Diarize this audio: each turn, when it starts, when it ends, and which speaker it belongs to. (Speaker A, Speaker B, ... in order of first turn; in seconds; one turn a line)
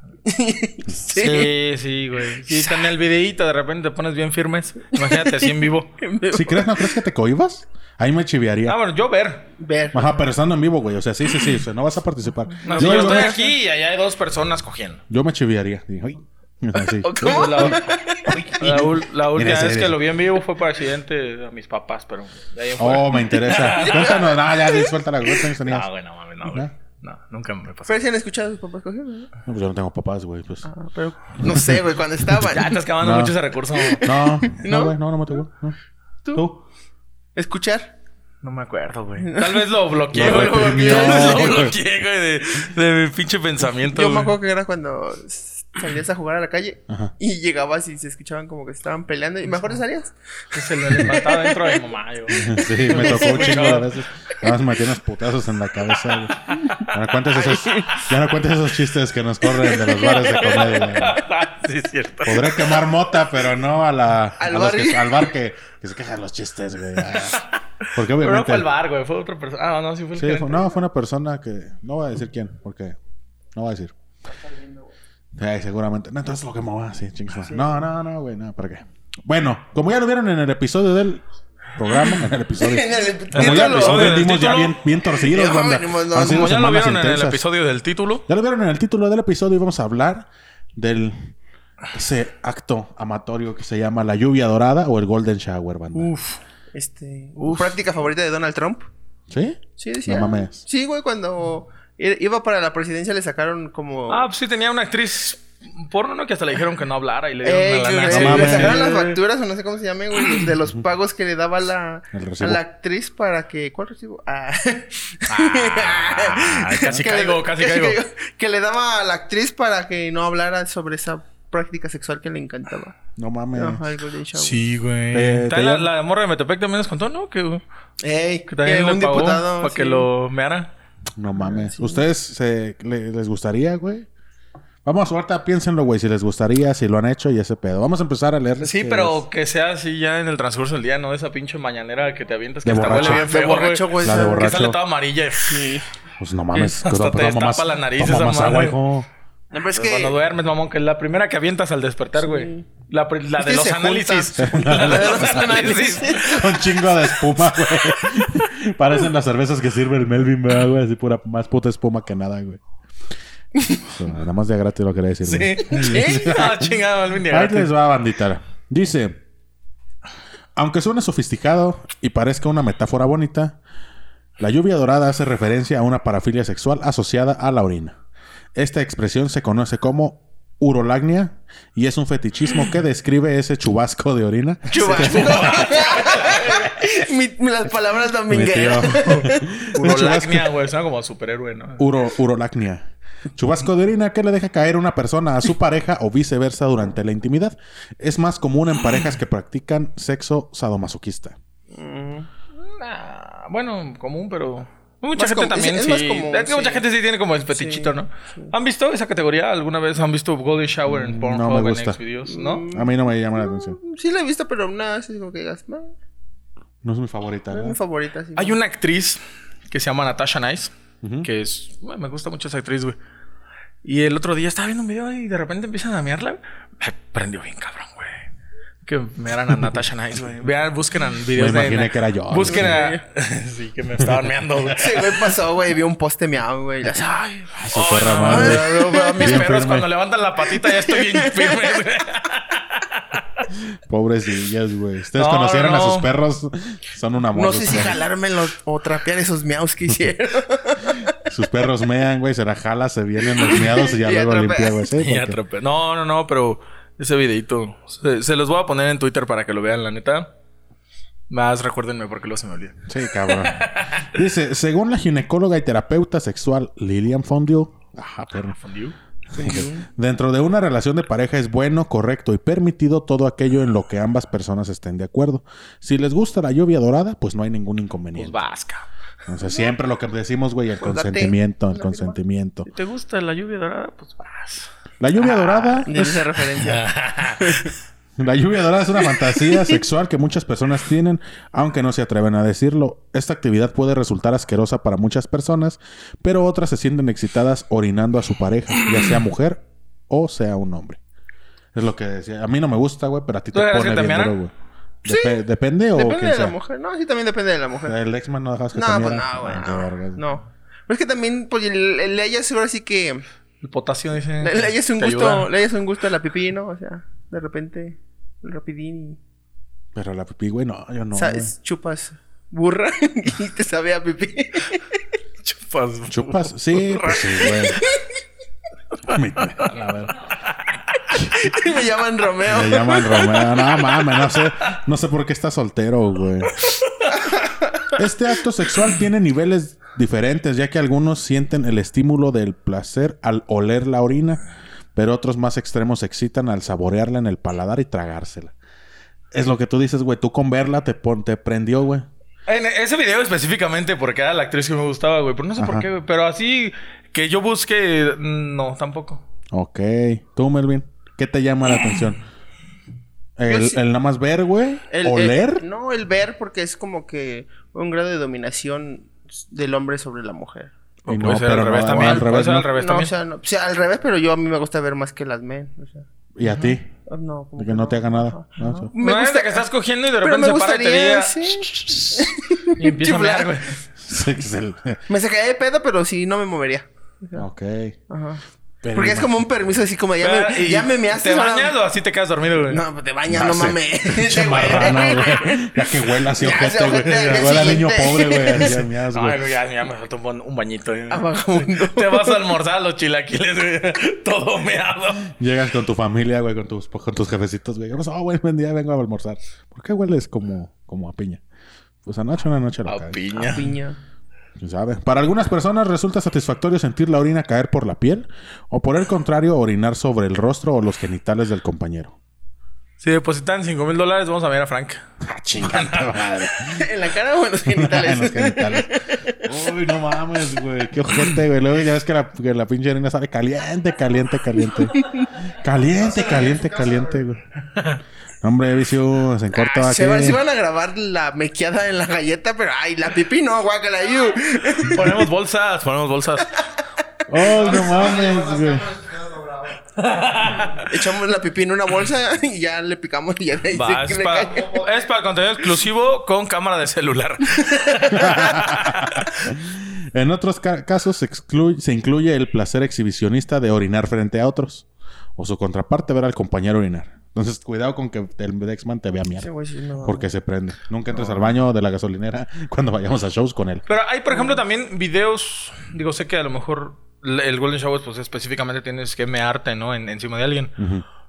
Speaker A: 0.2-1.5
Speaker B: 1.1-6.0
Speaker A: 2.5-2.8
Speaker A: 4.9-6.9
Speaker C: 6.3-8.8
Speaker B: 8.7-9.5
Speaker A: 9.6-10.3
Speaker C: 9.9-13.4
Speaker A: 12.6-13.5
Speaker B: 12.7-15.0
Speaker C: 15.1-17.8
Speaker A: 16.8-18.9
Speaker B: 17.2-24.4
Speaker C: 18.6-20.0
Speaker C: 22.8-25.9
Speaker A: 23.3-25.4
Speaker B: 25.6-28.0
Speaker A: 27.9-29.3
Speaker C: 29.5-30.7
Speaker A: 30.6-32.7
Speaker C: 31.4-31.7
Speaker B: 32.5-34.1
Speaker C: 33.0-33.4
Speaker A: 33.9-35.0
Speaker C: 34.0-35.8
Speaker C: 36.3-36.6
Speaker A: 37.4-38.0
Speaker B: 38.4-44.3
Speaker A: 39.2-41.7
Speaker C: 40.1-41.8
Speaker A: 43.9-50.1
Speaker B: 50.5-53.9
Speaker A: 50.8-51.8
Speaker C: 52.3-61.2
Speaker A: 52.4-53.8
Speaker B: 56.5-56.9
Speaker A: 57.4-58.0
Speaker B: 59.8-62.8
Speaker A: 59.8-60.8
Speaker C: 62.2-67.4
Speaker A: 64.4-65.2
Speaker B: 67.1-70.8
Speaker C: 68.0-68.7
Speaker C: 70.2-73.0
Speaker C: 73.5-73.9
Speaker A: 74.3-74.9
Speaker C: 75.4-81.2
Speaker C: 81.8-87.4
Speaker A: 82.6-84.4
Speaker B: 83.3-84.8
Speaker A: 85.1-86.5
Speaker B: 86.2-88.2
Speaker C: 88.3-91.3
Speaker C: 91.9-96.1
Speaker B: 96.0-96.4
Speaker A: 96.7-98.9
Speaker B: 97.4-97.8
Speaker C: 99.3-100.6
Speaker A: 99.8-104.3
Speaker B: 104.1-109.2
Speaker A: 107.4-123.0
Speaker C: 108.1-108.8
Speaker B: 110.2-110.5
Speaker C: 112.1-112.6
Speaker B: 115.3-118.0
Speaker C: 123.2-123.8
Speaker A: 123.5-124.7
Speaker B: 124.3-127.6
Speaker C: 125.1-125.9
Speaker A: 128.0-130.1
Speaker B: 128.5-130.7
Speaker C: 131.2-134.1
Speaker A: 131.4-132.0
Speaker C: 134.8-139.2
Speaker B: 138.6-145.8
Speaker C: 142.7-143.3
Speaker A: 142.8-144.5
Speaker C: 144.0-144.8
Speaker A: 145.4-145.9
Speaker C: 146.2-149.1
Speaker B: 146.5-148.8
Speaker A: 149.5-150.2
Speaker B: 149.7-156.4
Speaker A: 152.2-152.7
Speaker A: 153.4-156.6
Speaker C: 154.4-162.6
Speaker A: 163.6-163.9
Speaker C: 163.9-169.2
Speaker B: 165.2-167.7
Speaker A: 165.6-166.5
Speaker C: 170.6-173.6
Speaker C: 174.4-178.0
Speaker C: 178.6-185.7
Speaker A: 184.7-190.0
Speaker B: 184.8-186.7
Speaker C: 188.3-190.5
Speaker B: 188.9-191.9
Speaker C: 191.8-201.4
Speaker A: 201.7-202.3
Speaker B: 202.6-212.6
Speaker A: 205.2-206.8
Speaker A: 207.5-208.5
Speaker C: 210.9-212.0
Speaker A: 212.3-215.9
Speaker C: 212.7-213.8
Speaker C: 216.8-217.8
Speaker A: 217.5-218.6
Speaker B: 218.4-220.7
Speaker C: 221.0-221.3
Speaker B: 221.2-223.0
Speaker B: 223.8-228.3
Speaker B: 228.8-235.3
Speaker C: 231.3-232.9
Speaker A: 232.4-233.0
Speaker C: 234.0-234.3
Speaker A: 234.7-237.5
Speaker C: 237.6-239.9
Speaker B: 237.7-243.5
Speaker A: 238.2-239.5
Speaker A: 240.4-241.8
Speaker C: 243.9-248.0
Speaker B: 245.1-246.1
Speaker A: 247.3-251.2
Speaker C: 251.2-255.4
Speaker A: 253.3-254.9
Speaker B: 255.0-260.3
Speaker B: 261.3-264.1
Speaker C: 262.9-268.6
Speaker B: 268.6-269.0
Speaker A: 269.3-269.9
Speaker C: 269.4-278.4
Speaker B: 278.1-278.9
Speaker C: 279.3-282.7
Speaker A: 280.8-282.2
Speaker B: 282.7-284.7
Speaker C: 285.0-286.2
Speaker B: 285.4-287.7
Speaker A: 285.8-286.9
Speaker A: 287.4-287.7
Speaker C: 288.2-301.0
Speaker C: 301.7-304.5
Speaker B: 303.5-304.4
Speaker C: 305.0-306.6
Speaker A: 305.1-305.4
Speaker A: 305.9-307.9
Speaker C: 307.9-310.2
Speaker A: 308.7-313.2
Speaker B: 313.6-315.5
Speaker A: 314.4-319.2
Speaker C: 319.9-321.5
Speaker A: 321.1-324.9
Speaker B: 325.4-327.8
Speaker C: 326.1-327.8
Speaker A: 327.5-328.0
Speaker C: 329.1-330.1
Speaker B: 330.5-331.1
Speaker A: 331.2-333.5
Speaker C: 332.4-336.6
Speaker A: 337.1-337.9
Speaker C: 337.9-344.4
Speaker C: 344.9-348.5
Speaker C: 349.3-352.1
Speaker B: 352.5-359.2
Speaker C: 355.6-355.9
Speaker C: 359.5-362.2
Speaker C: 363.4-365.6
Speaker A: 363.4-363.8
Speaker A: 364.9-370.7
Speaker B: 371.1-373.1
Speaker C: 371.1-372.7
Speaker A: 371.9-372.2
Speaker A: 372.8-376.1
Speaker C: 376.4-376.9
Speaker B: 376.4-376.8
Speaker A: 377.1-379.6
Speaker C: 377.6-378.9
Speaker B: 378.9-383.8
Speaker A: 380.2-383.6
Speaker C: 384.0-385.0
Speaker A: 385.1-387.4
Speaker C: 387.4-388.0
Speaker A: 388.1-388.4
Speaker C: 388.8-389.4
Speaker A: 388.9-391.8
Speaker B: 390.2-392.8
Speaker A: 392.7-398.8
Speaker C: 393.3-399.5
Speaker B: 399.1-405.3
Speaker A: 401.1-402.5
Speaker C: 405.3-411.4
Speaker C: 412.0-413.2
Speaker B: 412.9-413.8
Speaker A: 413.3-414.0
Speaker C: 414.6-422.2
Speaker B: 423.0-425.0
Speaker C: 425.2-426.9
Speaker B: 425.6-426.1
Speaker A: 426.7-429.5
Speaker C: 427.7-428.9
Speaker C: 429.4-435.0
Speaker A: 434.9-435.3
Speaker C: 435.6-437.4
Speaker A: 436.1-436.6
Speaker B: 437.8-438.0
Speaker C: 438.4-440.4
Speaker A: 439.5-445.2
Speaker B: 444.9-446.6
Speaker C: 447.3-449.1
Speaker A: 447.4-448.3
Speaker B: 449.9-451.0
Speaker A: 450.7-454.8
Speaker B: 453.7-459.4
Speaker A: 457.6-458.4
Speaker C: 458.1-464.9
Speaker C: 465.4-469.5
Speaker A: 469.4-470.3
Speaker C: 470.0-473.9
Speaker A: 471.1-471.4
Speaker B: 473.9-480.7
Speaker A: 474.3-474.6
Speaker C: 480.8-481.1